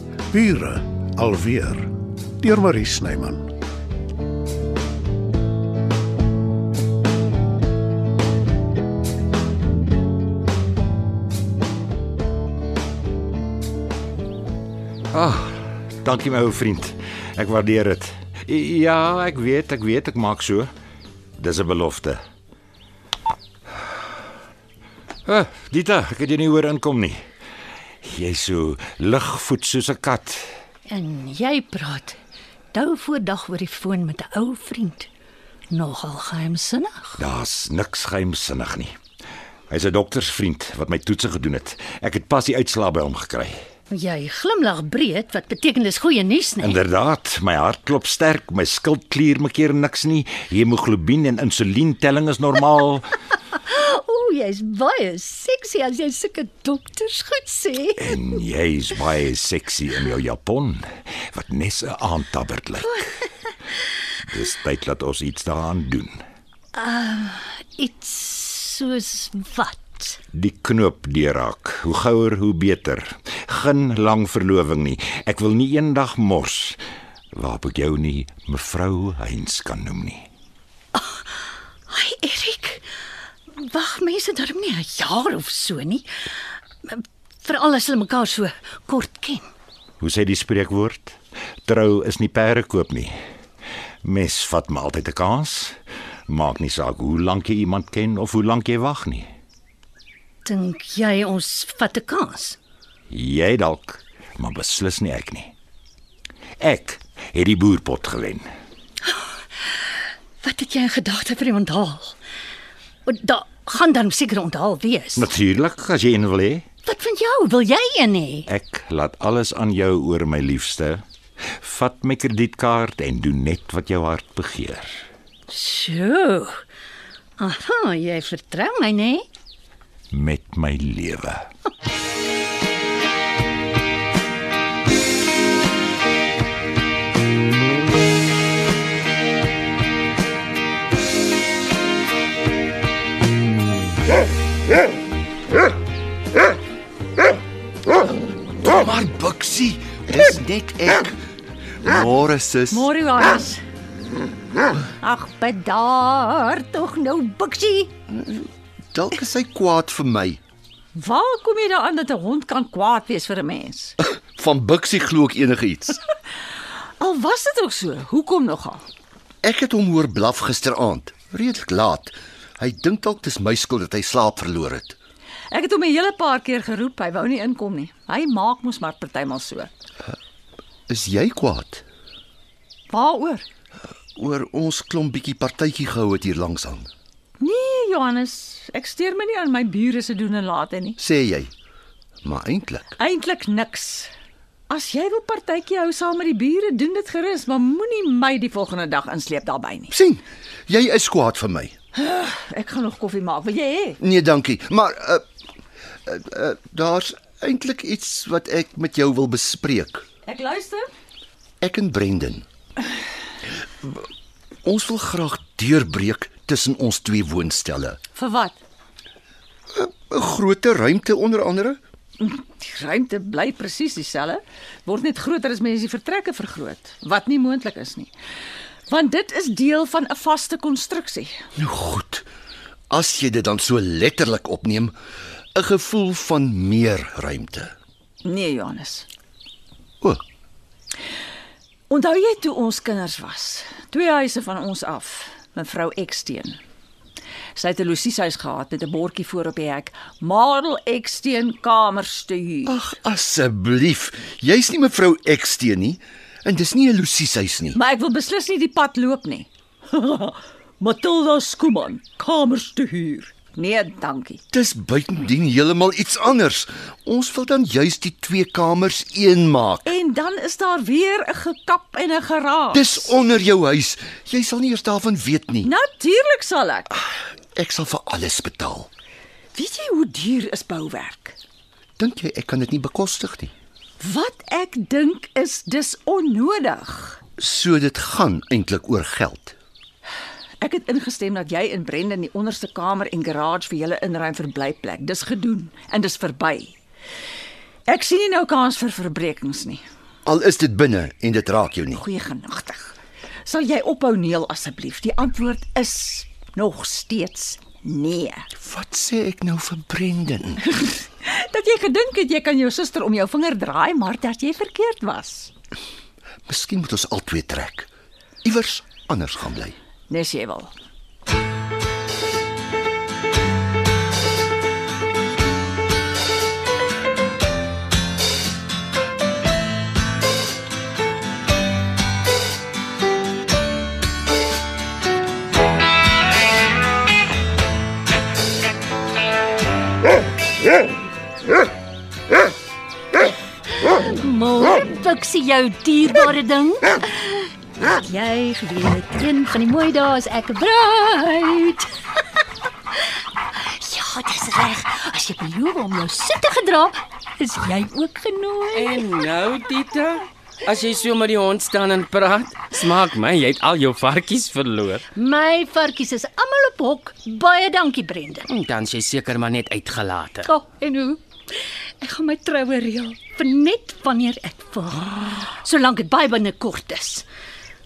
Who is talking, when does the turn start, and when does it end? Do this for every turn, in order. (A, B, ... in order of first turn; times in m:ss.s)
0:00.3-0:03.5 A
0:15.1-0:20.7 B
0:21.4-0:22.2 B
0:25.3-0:27.2 B
0:28.0-0:30.4 B
0:30.9-0:32.2 C
0:32.7-0:35.1 C
0:35.7-0:37.2 C
0:37.2-0:38.9 B
0:39.7-0:43.6 B
0:43.9-0:46.8 C
0:46.6-0:53.1 B
0:53.5-0:58.2 C
0:58.0-1:03.0 B
1:04.3-1:06.2 B
1:06.8-1:10.2 C
1:10.3-1:16.8 B
1:17.3-1:20.3 B
1:20.9-1:21.2 C
1:21.9-1:22.8 C
1:23.5-1:26.1 C
1:26.8-1:29.5 C
1:30.0-1:33.1 B
1:34.0-1:35.8 B
1:36.3-1:39.3 B
1:40.4-1:42.6 C
1:43.1-1:45.5 B
1:46.6-1:48.5 B
1:50.4-1:52.2 C
1:53.1-1:55.3 C
1:55.2-1:56.6 B
1:56.8-1:58.5 C
1:58.5-2:01.0 B
2:01.6-2:05.1 B
2:05.5-2:06.6 C
2:07.4-2:09.2 C
2:10.1-2:11.4 B
2:28.6-2:31.2 D
2:31.8-2:32.9 D
2:32.7-2:33.6 E
2:35.0-2:37.9 E
2:38.1-2:40.4 D
2:40.9-2:44.0 E
2:44.0-2:46.0 D
2:47.0-2:48.8 E
2:49.4-2:55.0 D
2:55.5-2:59.7 E
3:00.9-3:01.8 D
3:02.9-3:03.4 E
3:04.2-3:06.9 D
3:07.4-3:11.0 E
3:11.0-3:11.5 D
3:12.2-3:13.0 D
3:13.0-3:14.1 E
3:14.7-3:19.9 E
3:19.9-3:21.7 D
3:21.9-3:24.0 E
3:24.0-3:25.2 D
3:26.1-3:30.1 D
3:30.2-3:30.9 E
3:31.6-3:32.5 D
3:34.6-3:38.0 D
3:38.2-3:38.6 E
3:39.7-3:41.8 D
3:42.2-3:48.1 E
3:48.9-3:51.4 E
3:51.6-3:52.3 D
3:52.9-3:54.9 D
3:55.6-3:57.8 D
3:58.2-3:59.1 E
4:01.9-4:06.6 E
4:07.5-4:12.8 E
4:12.7-4:17.8 D
4:17.8-4:24.4 E
4:24.5-4:29.9 D
4:29.9-4:33.1 E
4:32.7-4:35.7 D
4:35.6-4:36.9 E
4:37.6-4:38.9 D
4:39.5-4:41.4 E
4:42.0-4:43.5 D
4:44.0-4:47.2 E
4:47.4-4:49.6 D
4:50.6-4:56.8 E
4:57.9-4:59.8 E
5:00.3-5:02.0 D
5:01.9-5:02.9 E
5:03.4-5:08.5 E
5:08.6-5:10.6 D
5:10.7-5:15.5 E
5:16.5-5:17.9 D
5:18.4-5:19.8 D
5:20.1-5:20.7 E
5:43.8-5:47.3 C
5:47.8-5:51.9 C
5:53.6-5:59.1 C
5:58.7-6:05.0 F
6:05.1-6:08.5 C
6:08.5-6:10.5 F
6:10.4-6:11.2 C
6:12.0-6:17.3 C